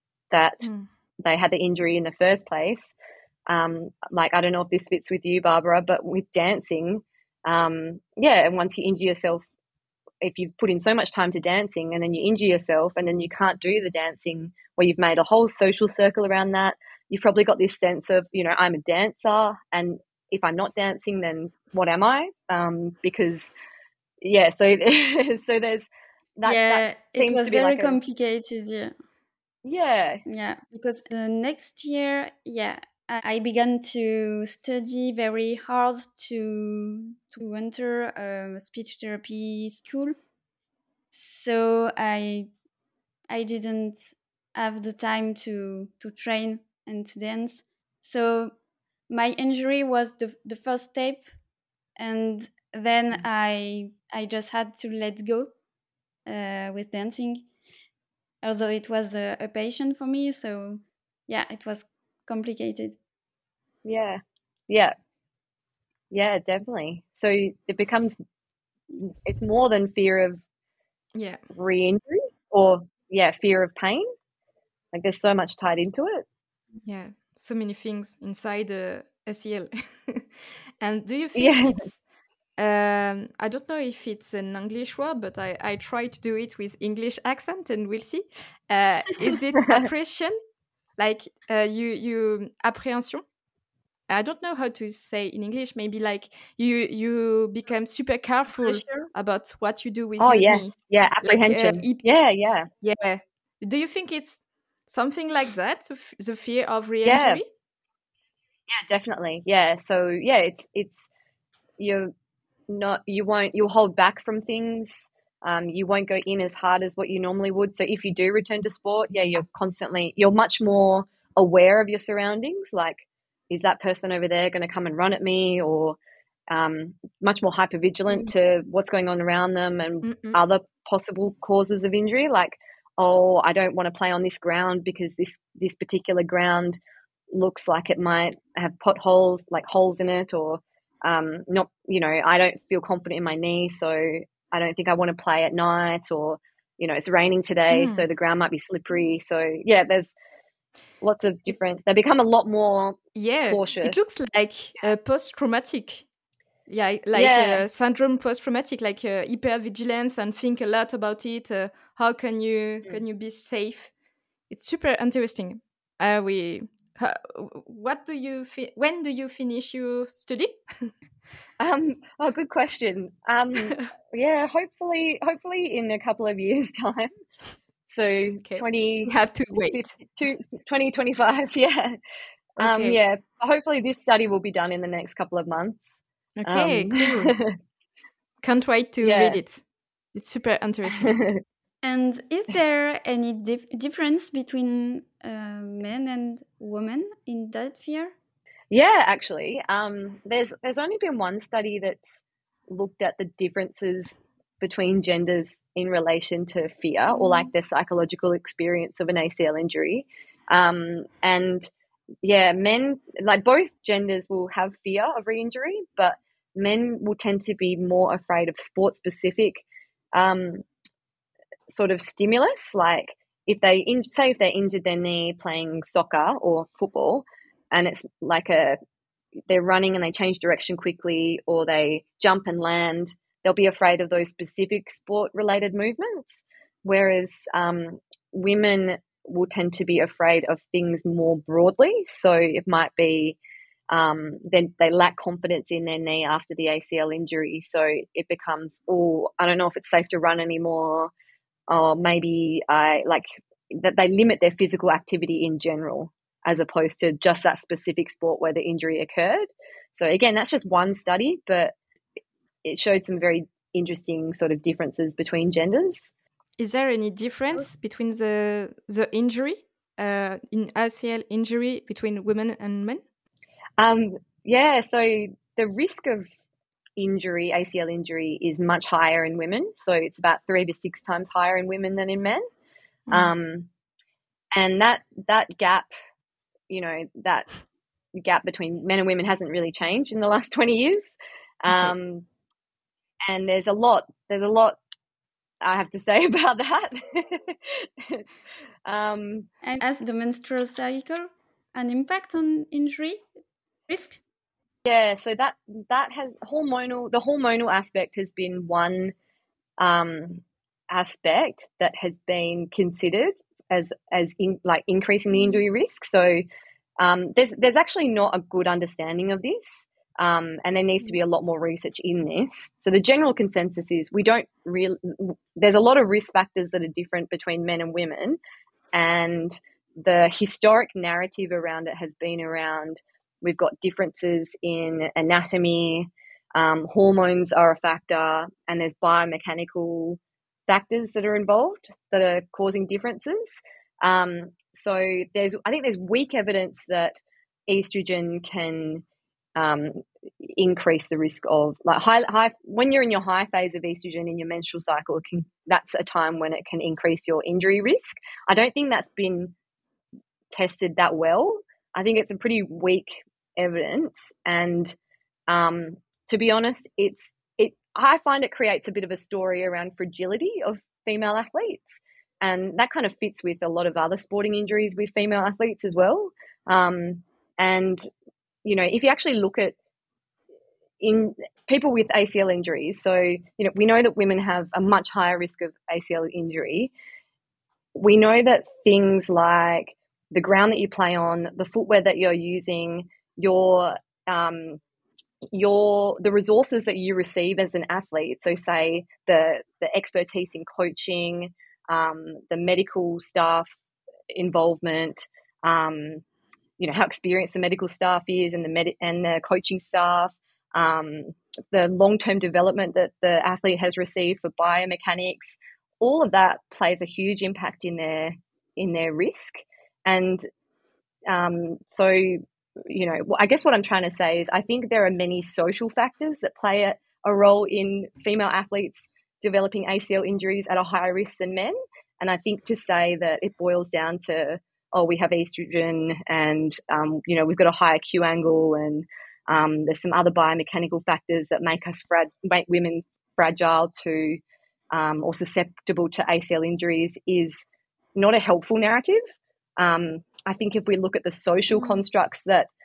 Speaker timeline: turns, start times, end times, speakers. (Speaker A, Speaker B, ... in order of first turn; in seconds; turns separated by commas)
Speaker A: 0.3-0.7, Speaker A: 1.2-2.9, Speaker A: 3.5-9.4, Speaker A: 10.2-23.5, Speaker A: 24.2-28.0, Speaker B: 26.4-28.9, Speaker A: 29.6-30.2, Speaker B: 30.2-40.1, Speaker B: 41.1-42.5, Speaker B: 43.3-48.6, Speaker B: 49.1-51.3, Speaker B: 52.0-55.5, Speaker B: 56.2-57.5, Speaker B: 58.4-63.0, Speaker A: 63.9-64.9, Speaker A: 66.1-68.2, Speaker A: 68.9-70.4, Speaker C: 71.1-71.4, Speaker A: 71.5-74.1, Speaker A: 74.9-76.2, Speaker C: 76.8-82.0, Speaker A: 81.3-81.9, Speaker C: 82.6-90.4, Speaker C: 91.0-93.2, Speaker C: 94.1-102.0, Speaker B: 98.5-99.1, Speaker A: 100.2-102.7, Speaker C: 102.8-107.5, Speaker A: 107.0-107.4, Speaker A: 108.7-111.1, Speaker A: 111.8-112.1, Speaker A: 112.7-126.0, Speaker A: 126.5-136.8, Speaker C: 130.0-130.4, Speaker A: 137.3-150.1, Speaker C: 147.7-148.1, Speaker A: 151.0-154.0, Speaker C: 153.2-156.1, Speaker C: 156.7-163.9, Speaker A: 157.1-157.6, Speaker C: 164.5-170.9, Speaker A: 171.6-177.1, Speaker A: 177.9-179.1, Speaker C: 178.4-180.1, Speaker A: 179.7-182.0, Speaker A: 182.6-185.8, Speaker C: 182.6-183.0, Speaker C: 186.4-187.3, Speaker A: 186.4-187.5, Speaker C: 188.4-189.6, Speaker A: 189.0-189.4, Speaker C: 190.1-191.2, Speaker A: 190.9-191.4, Speaker B: 191.8-198.1, Speaker A: 198.7-202.1, Speaker A: 202.7-211.7, Speaker A: 212.2-220.6, Speaker A: 221.7-228.8, Speaker A: 229.5-243.4, Speaker A: 243.9-251.1, Speaker A: 251.7-261.7, Speaker A: 262.6-266.1, Speaker C: 266.6-273.0, Speaker A: 273.8-276.3, Speaker A: 277.0-282.4, Speaker C: 283.1-283.3, Speaker A: 283.1-283.7, Speaker A: 284.5-285.9, Speaker A: 286.7-287.5, Speaker A: 288.1-292.2, Speaker A: 293.2-294.8, Speaker A: 295.6-298.2, Speaker A: 298.9-299.5, Speaker B: 299.6-303.2, Speaker B: 303.9-304.2, Speaker A: 304.9-309.1, Speaker A: 309.8-316.4, Speaker A: 317.0-328.4, Speaker A: 328.9-349.0, Speaker A: 349.6-359.5, Speaker A: 360.5-364.9, Speaker A: 365.5-378.1, Speaker A: 378.6-379.8, Speaker A: 381.0-386.9, Speaker A: 387.9-394.8, Speaker A: 395.5-403.7, Speaker A: 404.3-406.2, Speaker A: 406.8-420.4, Speaker A: 421.3-444.4, Speaker A: 444.9-449.2, Speaker A: 449.8-452.7